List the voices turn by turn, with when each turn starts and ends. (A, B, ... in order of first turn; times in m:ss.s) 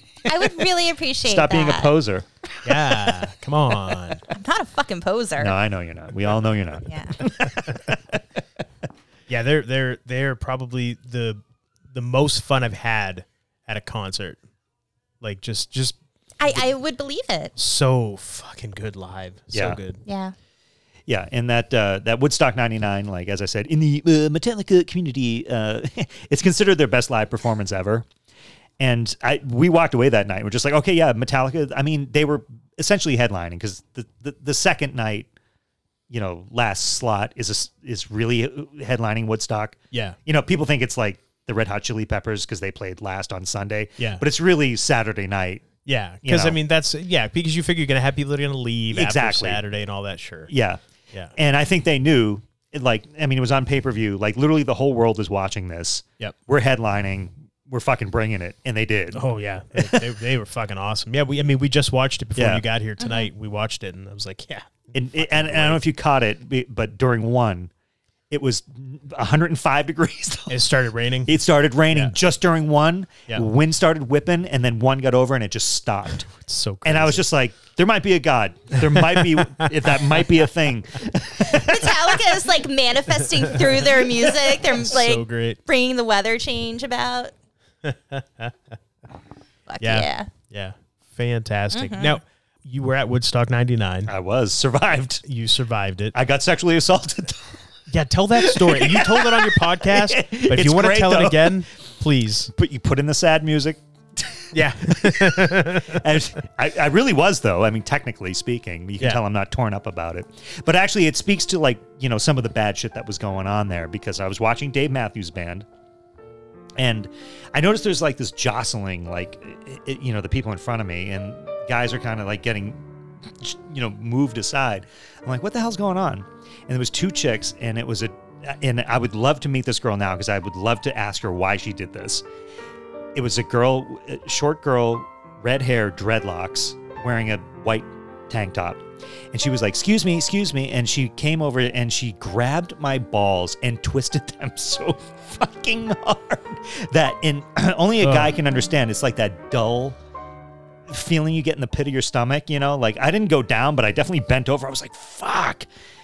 0:00.2-0:03.1 A
0:00.2-0:01.9 B
0:02.6-0:04.2 C
0:04.3-0:05.5 B
0:05.4-0:08.4 A
0:06.8-0:07.2 B
0:09.3-0:11.4 C
0:11.9-0:14.4 C
0:15.2-0:16.0 C
0:16.4-0:17.5 B
0:17.6-0:20.0 C
0:19.5-0:19.8 A
0:20.0-0:20.3 B
0:21.1-0:28.1 A
0:28.8-0:35.3 A
0:36.1-0:45.7 A
0:44.0-0:44.2 C
0:45.8-0:50.5 C
0:46.2-0:46.6 A
0:48.9-0:49.6 A
0:50.5-0:50.8 A
0:51.4-0:59.2 A
0:59.1-1:05.8 C
0:59.7-1:00.1 A
1:02.4-1:02.6 A
1:03.0-1:03.3 B
1:04.9-1:07.7 A
1:08.3-1:10.6 A
1:10.5-1:11.3 C
1:11.2-1:16.3 A
1:11.9-1:12.2 C
1:16.3-1:17.3 C
1:16.8-1:22.2 A
1:18.8-1:20.3 C
1:21.4-1:27.3 B
1:24.2-1:24.6 A
1:24.7-1:25.6 C
1:27.8-1:28.5 C
1:29.7-1:30.3 B
1:29.8-1:34.1 C
1:31.7-1:32.2 B
1:34.1-1:35.2 A
1:35.2-1:36.1 C
1:36.1-1:37.6 A
1:37.9-1:42.5 C
1:38.4-1:41.6 A
1:42.5-1:55.6 A
1:44.5-1:46.2 C
1:56.8-2:12.2 A
2:13.1-2:30.0 A
2:28.0-2:28.3 C
2:30.9-2:35.7 A